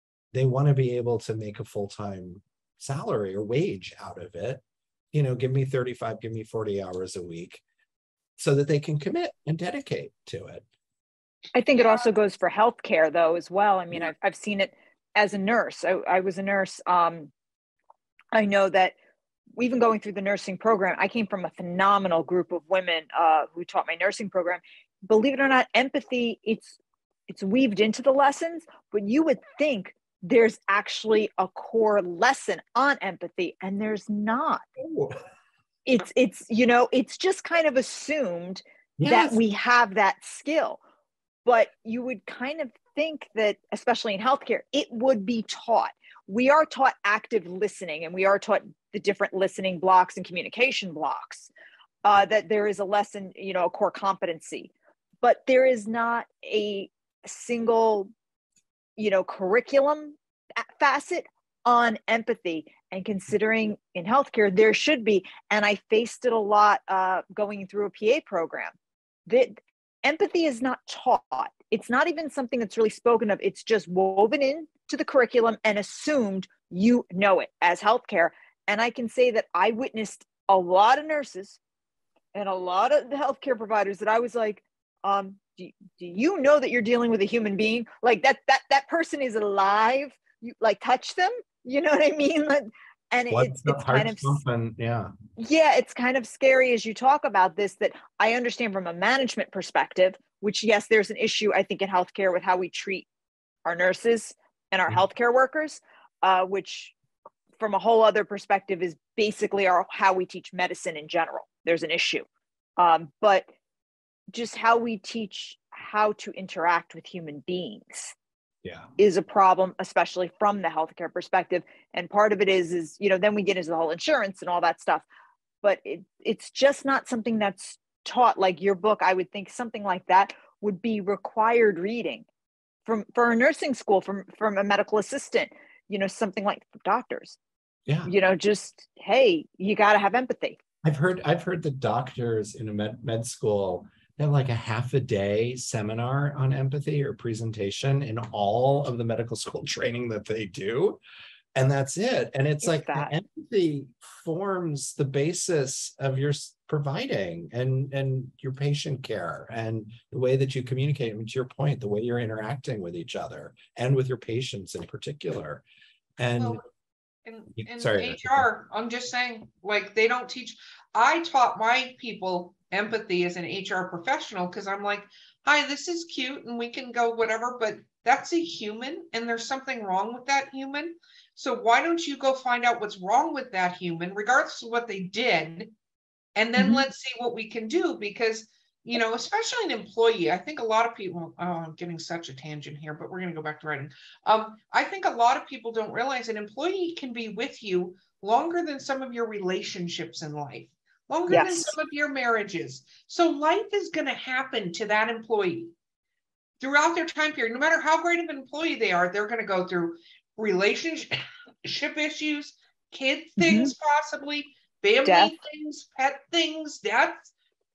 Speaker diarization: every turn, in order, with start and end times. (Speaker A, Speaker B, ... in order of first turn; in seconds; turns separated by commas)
Speaker A: 0.3-7.6, Speaker A: 8.4-10.6, Speaker B: 11.5-17.3, Speaker B: 18.3-18.9, Speaker B: 19.6-26.8, Speaker B: 27.3-34.6, Speaker A: 34.8-35.2, Speaker B: 35.9-40.8, Speaker A: 39.0-39.4, Speaker B: 41.5-51.5, Speaker B: 52.0-58.1, Speaker B: 59.0-68.7, Speaker B: 69.3-81.6, Speaker B: 82.3-94.4, Speaker A: 93.3-95.1, Speaker B: 95.4-103.1, Speaker B: 103.7-106.9, Speaker B: 107.6-113.5, Speaker B: 114.3-118.1, Speaker B: 119.0-125.0, Speaker B: 125.6-132.3, Speaker B: 132.9-137.4, Speaker B: 138.1-140.6, Speaker A: 140.8-151.0, Speaker A: 151.6-165.6, Speaker B: 152.6-153.1, Speaker A: 166.2-166.6, Speaker C: 167.2-185.7, Speaker A: 167.6-168.5, Speaker C: 186.4-205.7, Speaker B: 186.6-186.9, Speaker B: 201.3-201.7, Speaker C: 206.6-217.3, Speaker B: 213.4-213.7, Speaker B: 215.1-215.3